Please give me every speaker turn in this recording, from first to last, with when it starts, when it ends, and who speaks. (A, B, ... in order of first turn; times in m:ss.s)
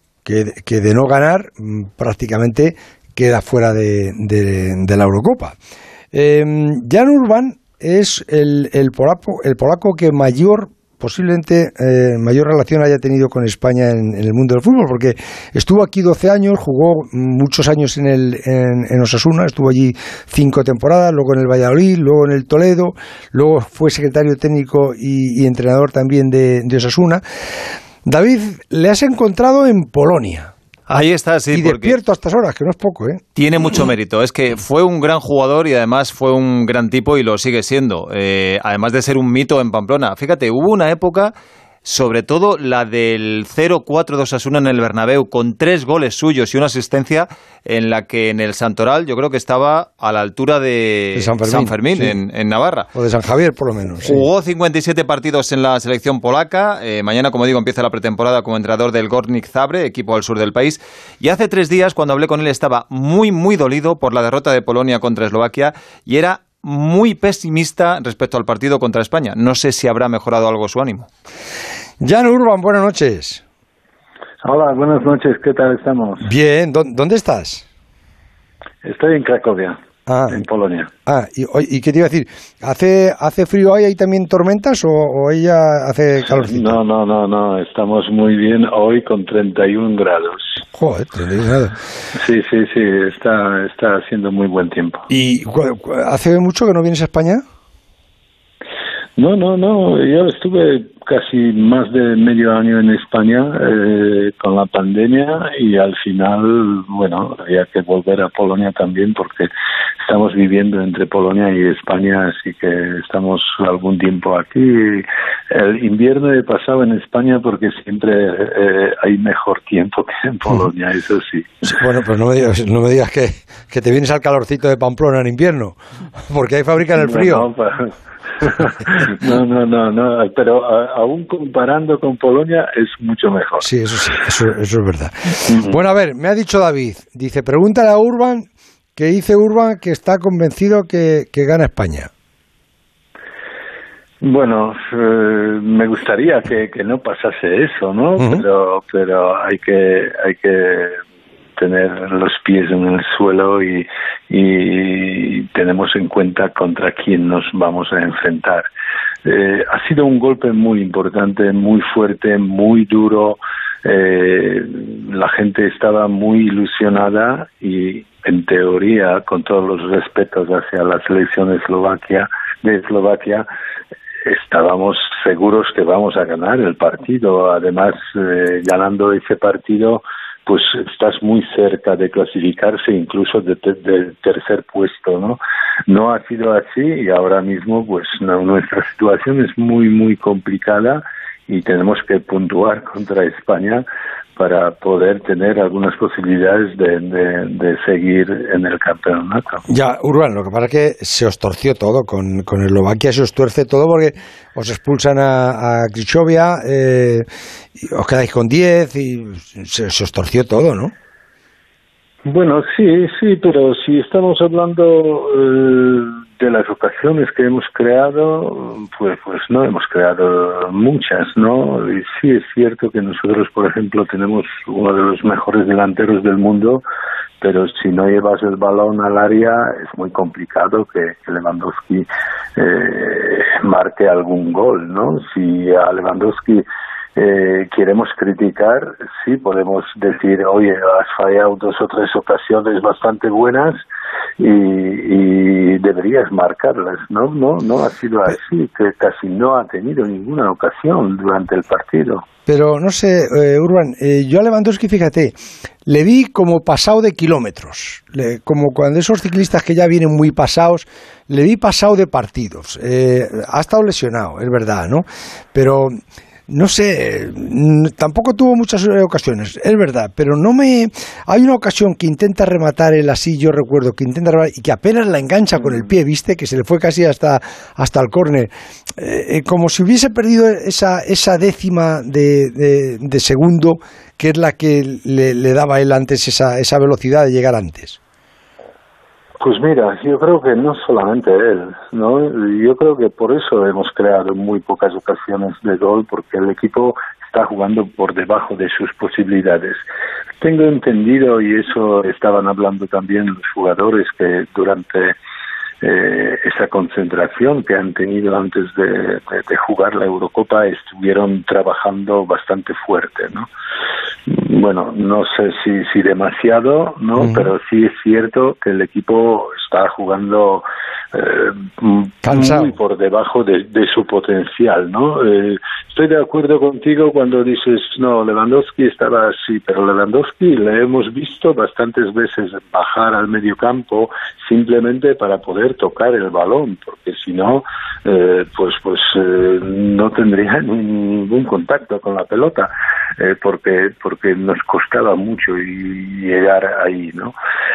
0:00.2-0:05.6 A
0:06.1-0:27.2 A
0:28.0-0:30.5 A
0:30.9-0:32.0 B
0:31.5-0:33.2 A
0:33.4-0:41.3 B
0:41.8-0:52.9 B
0:51.1-0:52.2 A
0:52.9-0:54.2 A
0:54.0-1:11.1 B
1:12.0-1:13.4 A
1:14.4-1:16.3 C
1:16.2-1:17.6 A
1:18.8-1:19.8 C
1:20.1-1:20.4 A
1:20.3-1:20.9 C
1:21.0-1:26.8 A
1:26.2-1:30.5 C
1:30.7-1:31.8 A
1:32.1-1:35.1 C
1:35.1-1:37.4 A
1:39.2-1:49.5 C
1:50.0-2:01.7 C
2:01.7-2:07.5 A
2:07.0-2:13.7 C
2:13.6-2:22.1 A
2:15.5-2:15.8 C
2:24.2-2:31.0 C
2:28.2-2:28.4 A
2:31.6-2:38.6 C
2:39.2-2:53.4 C
2:54.2-3:13.8 C
3:14.4-3:19.6 C
3:19.7-3:27.3 A
3:27.8-3:30.9 A
3:32.2-3:46.8 C
3:47.4-3:56.6 C
3:57.2-4:03.8 C
4:04.4-4:12.2 C
4:12.5-4:26.0 A
4:26.5-4:48.0 A
4:49.4-4:59.8 C
5:00.4-5:05.1 C
5:05.8-5:13.5 C
5:14.3-5:47.3 C
5:17.2-5:17.5 A
5:22.2-5:22.7 A